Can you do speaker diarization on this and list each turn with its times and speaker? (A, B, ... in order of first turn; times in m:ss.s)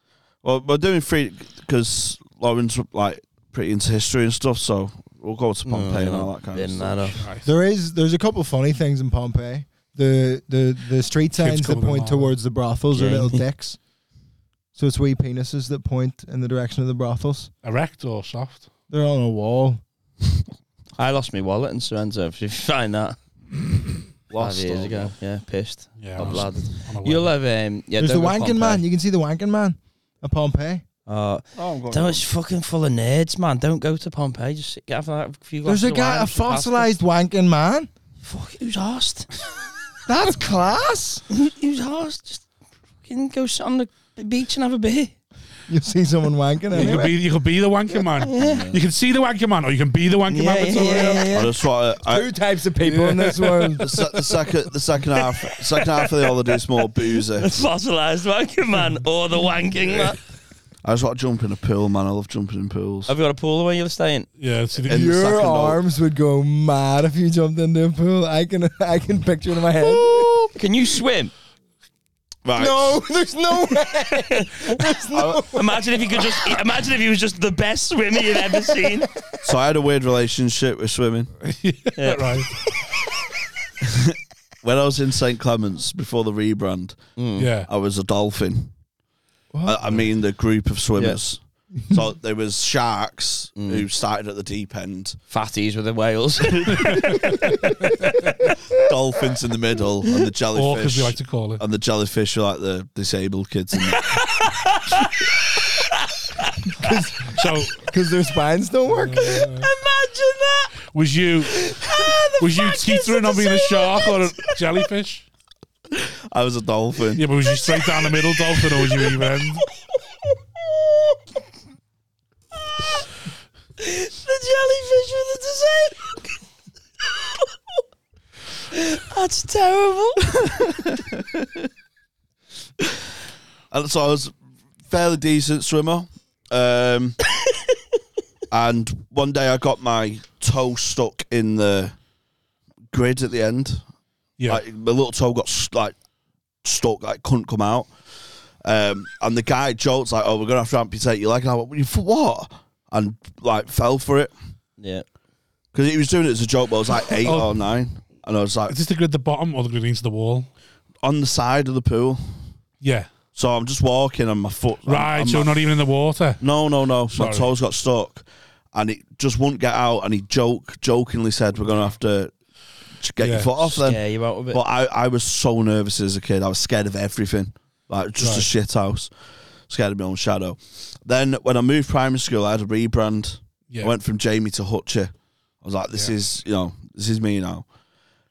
0:00.4-0:07.2 A
0:05.6-0:07.2 B
0:07.2-0:07.5 C
0:07.4-0:13.8 D
0:11.3-0:12.3 C
0:12.9-0:13.4 B
0:14.7-0:17.5 D
0:17.6-0:18.7 C
0:18.9-0:19.8 D
0:21.0-0:23.2 B
0:24.3-0:25.1 A
0:24.3-0:28.8 B
0:26.0-0:27.3 C
0:28.0-0:30.8 D
0:31.1-0:36.9 B
0:31.6-0:32.2 A
0:35.6-0:37.9 D
0:38.2-0:39.3 B
0:40.0-0:41.2 D
0:41.3-0:42.4 B
0:43.0-0:45.2 B
0:45.7-0:47.1 D
0:46.7-0:51.3 C
0:46.8-0:47.0 B
0:48.2-0:48.7 B
0:48.3-0:48.8 A
0:50.3-0:51.6 B
0:51.3-0:52.3 A
0:52.0-0:54.2 D
0:52.8-0:53.8 C
0:53.8-0:57.6 A
0:55.2-1:00.2 B
1:00.8-1:03.1 A
1:03.1-1:04.3 B
1:04.4-1:05.2 C
1:04.9-1:05.8 A
1:04.9-1:10.5 D
1:09.8-1:11.3 B
1:12.4-1:13.0 A
1:12.6-1:16.3 D
1:13.9-1:19.1 B
1:18.7-1:19.0 D
1:19.4-1:21.3 A
1:21.4-1:22.5 C
1:22.0-1:22.6 B
1:23.8-1:27.0 A
1:27.2-1:27.5 B
1:27.4-1:27.7 C
1:27.6-1:28.7 A
1:29.5-1:29.8 D
1:29.6-1:35.2 A
1:33.6-1:33.8 B
1:35.3-1:37.4 B
1:36.4-1:37.3 A
1:36.7-1:38.5 C
1:38.7-1:44.2 A
1:40.5-1:41.6 C
1:43.7-1:46.9 B
1:46.7-1:49.4 D
1:47.3-1:47.9 C
1:48.8-1:49.7 C
1:49.2-1:50.7 B
1:50.9-1:51.7 C
1:51.4-1:54.6 B
1:52.4-1:55.2 C
1:55.9-1:57.2 A
1:57.1-1:59.6 C
1:57.5-1:59.4 B
2:00.6-2:01.2 B
2:02.7-2:03.0 B
2:03.8-2:06.4 B
2:08.7-2:10.6 B
2:10.8-2:11.7 A
2:13.7-2:14.3 A
2:14.8-2:17.2 A
2:18.5-2:22.0 A
2:22.9-2:23.8 A
2:24.5-2:25.9 A
2:26.6-2:27.9 A
2:28.6-2:34.3 A
2:34.8-2:35.0 B
2:35.7-2:38.8 A
2:37.2-2:37.6 C
2:38.7-2:40.5 C
2:41.0-2:42.4 A
2:42.8-2:43.1 C
2:43.3-2:45.6 A
2:44.8-2:46.4 C
2:46.4-2:52.3 A
2:47.1-2:47.5 C
2:53.0-2:59.1 A
2:53.2-2:53.6 C
2:53.7-2:54.6 B
2:58.2-2:58.5 C
2:59.7-3:07.7 A